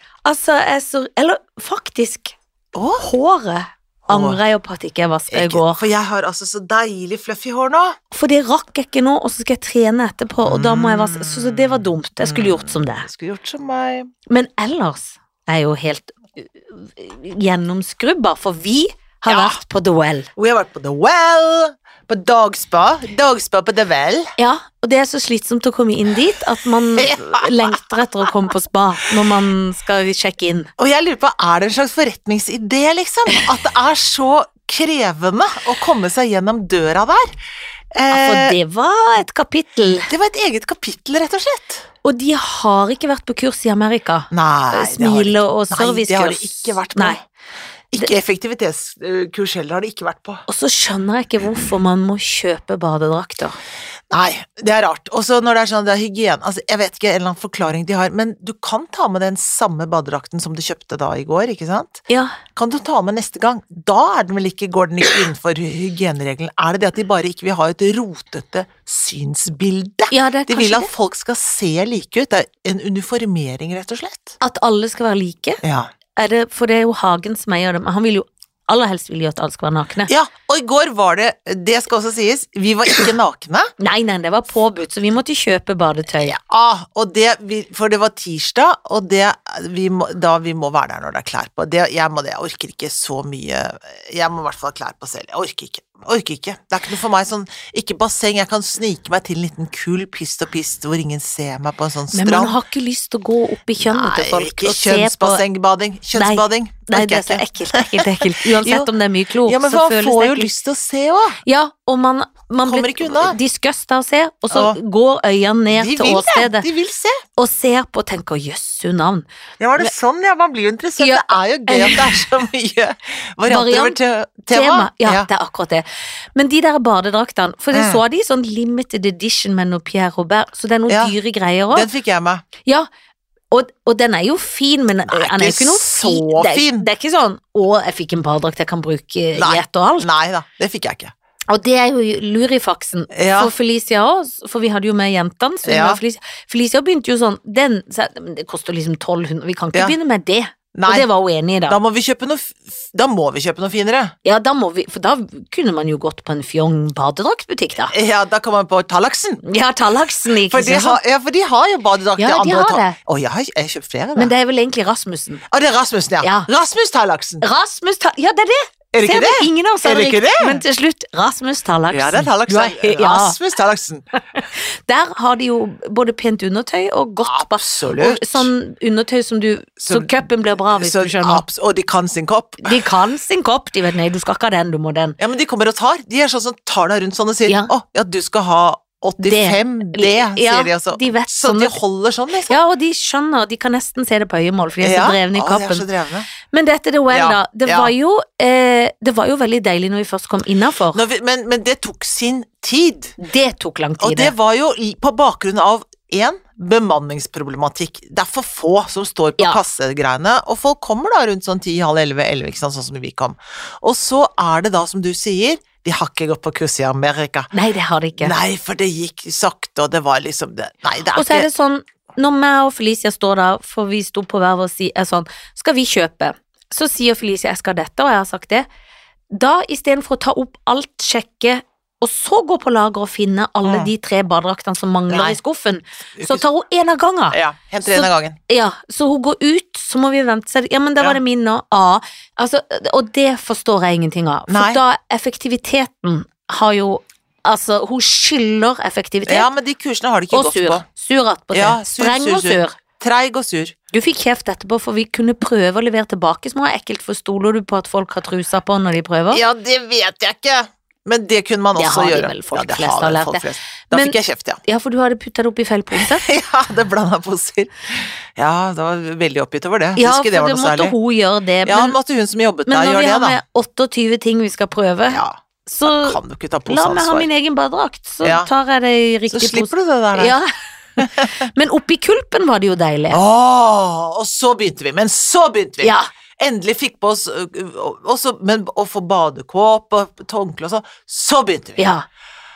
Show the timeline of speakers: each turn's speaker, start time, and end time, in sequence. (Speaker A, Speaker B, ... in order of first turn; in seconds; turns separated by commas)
Speaker A: 0.2-2.3, Speaker B: 2.7-3.1, Speaker A: 3.0-5.8, Speaker B: 4.1-4.4, Speaker B: 5.3-8.0, Speaker A: 8.1-13.1, Speaker B: 10.4-14.1, Speaker A: 14.3-20.3, Speaker B: 19.3-19.6, Speaker B: 20.4-24.3, Speaker A: 24.4-30.7, Speaker B: 27.0-28.3, Speaker B: 30.8-37.3, Speaker B: 37.9-38.6, Speaker A: 38.1-40.1, Speaker B: 40.1-41.8, Speaker A: 42.0-47.2, Speaker B: 44.3-47.2, Speaker B: 47.9-50.4, Speaker A: 50.5-53.6, Speaker B: 54.1-62.0, Speaker A: 62.1-62.4, Speaker B: 62.5-74.3, Speaker A: 70.1-70.9, Speaker A: 74.4-75.6, Speaker B: 75.6-75.9, Speaker A: 76.2-80.1, Speaker B: 80.1-83.7, Speaker A: 83.8-86.3, Speaker B: 86.2-102.6, Speaker A: 102.1-105.4, Speaker B: 103.8-108.9, Speaker A: 106.1-110.5, Speaker B: 109.4-111.4, Speaker A: 111.5-116.7, Speaker B: 112.6-113.4, Speaker B: 114.5-114.8, Speaker B: 115.7-117.2, Speaker A: 117.4-119.2, Speaker B: 119.6-125.3, Speaker A: 121.0-122.1, Speaker A: 123.5-124.0, Speaker A: 124.5-131.9, Speaker B: 127.7-128.0, Speaker B: 130.9-131.1, Speaker B: 131.7-132.4, Speaker A: 133.5-140.1, Speaker B: 135.1-136.9, Speaker B: 139.3-141.1, Speaker A: 141.5-151.8, Speaker B: 143.1-143.5, Speaker B: 145.6-146.0, Speaker B: 150.7-151.1, Speaker B: 151.7-154.1, Speaker A: 154.2-157.9, Speaker B: 157.9-159.4, Speaker A: 159.4-161.0, Speaker B: 160.5-164.3, Speaker A: 162.2-163.0, Speaker A: 164.2-165.4, Speaker B: 165.5-167.4, Speaker A: 166.2-166.5, Speaker A: 167.4-173.4, Speaker B: 168.9-170.6, Speaker B: 171.9-174.1, Speaker A: 174.3-181.4, Speaker B: 177.2-178.5, Speaker B: 179.8-182.8, Speaker A: 182.6-185.2, Speaker B: 185.2-192.6, Speaker A: 187.4-187.7, Speaker A: 189.2-191.8, Speaker A: 192.5-195.8, Speaker B: 194.8-196.3, Speaker A: 196.4-201.0, Speaker B: 197.1-197.9, Speaker B: 200.9-203.2, Speaker A: 203.2-204.3, Speaker B: 204.0-217.5, Speaker A: 217.5-218.3, Speaker B: 218.2-221.5, Speaker A: 221.1-228.7, Speaker A: 229.3-249.5, Speaker B: 233.6-233.9, Speaker B: 235.1-235.4, Speaker B: 236.2-236.4, Speaker B: 237.3-238.4, Speaker B: 244.5-244.8, Speaker B: 249.2-250.8, Speaker A: 250.3-252.8, Speaker B: 251.5-253.8, Speaker A: 253.9-259.4, Speaker B: 259.3-264.6, Speaker A: 261.8-266.2, Speaker B: 265.9-270.9, Speaker A: 269.9-272.0, Speaker B: 271.6-273.4, Speaker A: 272.7-280.5, Speaker B: 275.1-277.3, Speaker B: 278.2-278.5, Speaker B: 279.3-280.4, Speaker B: 281.0-281.5, Speaker A: 281.0-283.2, Speaker B: 283.1-291.9, Speaker A: 285.8-286.1, Speaker A: 291.8-292.1